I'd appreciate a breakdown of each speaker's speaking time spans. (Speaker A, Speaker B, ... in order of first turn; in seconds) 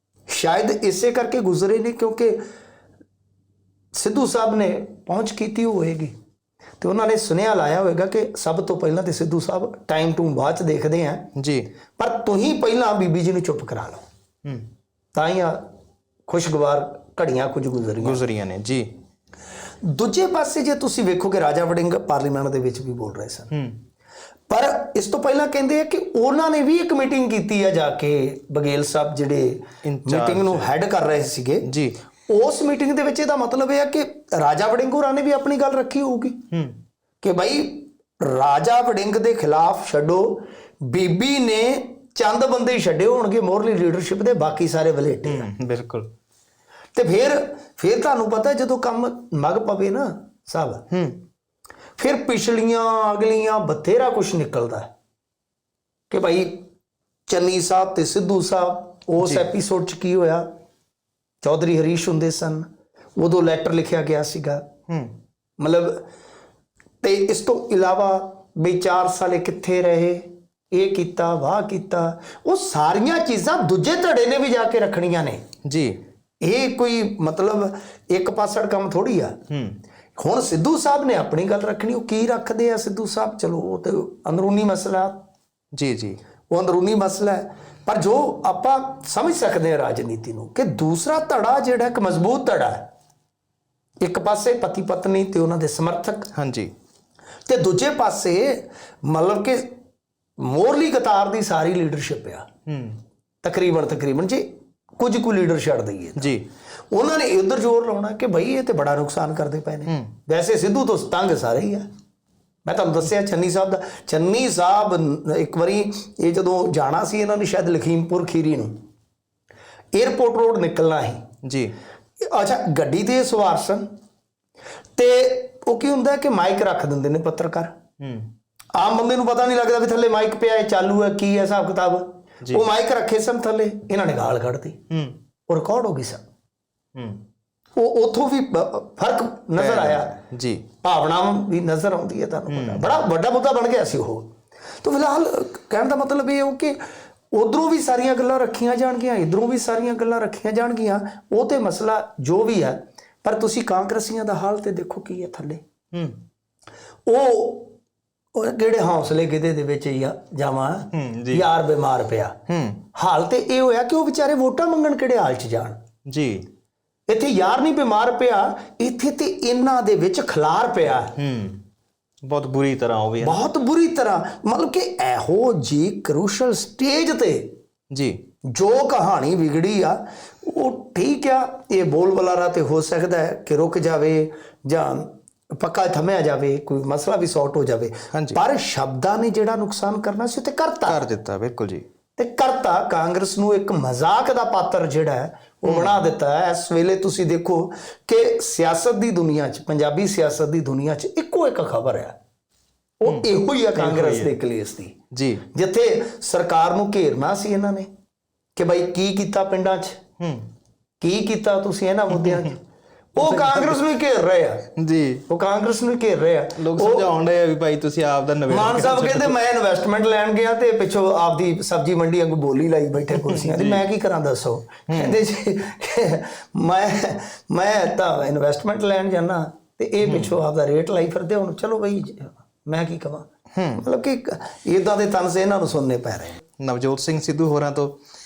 Speaker A: 0.3-2.4, 3.9-6.1, 6.8-11.3, 12.0-14.0, 15.1-15.7, 16.3-18.2, 19.8-23.5, 24.5-31.7, 32.3-36.4, 37.2-45.5, 46.9-50.9, 52.0-54.9, 56.1-56.6, 57.3-60.5, 61.4-64.7, 65.6-66.0, 67.0-75.4, 76.4-79.4, 80.2-85.2, 86.5-92.9, 94.0-96.3, 97.5-99.7, 100.4-102.5, 103.4-106.4, 106.9-111.9, 112.6-118.7, 119.9-121.2, 122.2-123.8, 125.0-127.7, 128.7-134.8, 135.5-136.2, 137.8-140.2, 140.8-144.3, 144.8-146.8, 147.3-155.6, 157.1-157.8, 158.3-162.4, 162.9-165.8, 167.1-171.1, 173.2-177.5, 178.4-191.0, 192.2-202.1, 203.0-204.9, 205.5-207.9, 208.6-210.0, 211.0-212.6, 213.1-214.7, 215.3-217.1, 218.5-236.4
Speaker B: 11.3-11.7, 18.0-18.9, 23.5-23.8, 29.8-30.7, 31.6-32.0, 36.5-36.8, 45.3-46.1, 50.9-51.2, 59.2-59.4, 64.9-65.1, 75.6-76.0, 79.5-79.8, 85.7-86.2, 96.3-96.7, 102.7-103.0, 106.2-106.4, 109.9-110.1, 121.4-121.7, 128.0-128.3, 134.9-135.2, 136.9-137.2, 139.6-140.7, 142.5-142.9, 155.9-156.2, 160.9-161.4, 162.5-162.8, 166.1-166.4, 171.2-171.6, 172.2-173.4, 177.9-178.2, 188.1-188.4, 190.9-191.8, 195.6-196.0, 203.0-204.3, 205.1-205.4, 210.2-210.5, 212.1-212.5, 213.2-213.8, 214.8-215.2, 216.6-219.3, 223.1-223.8, 224.9-225.2, 230.0-230.3, 233.5-233.8, 236.6-238.0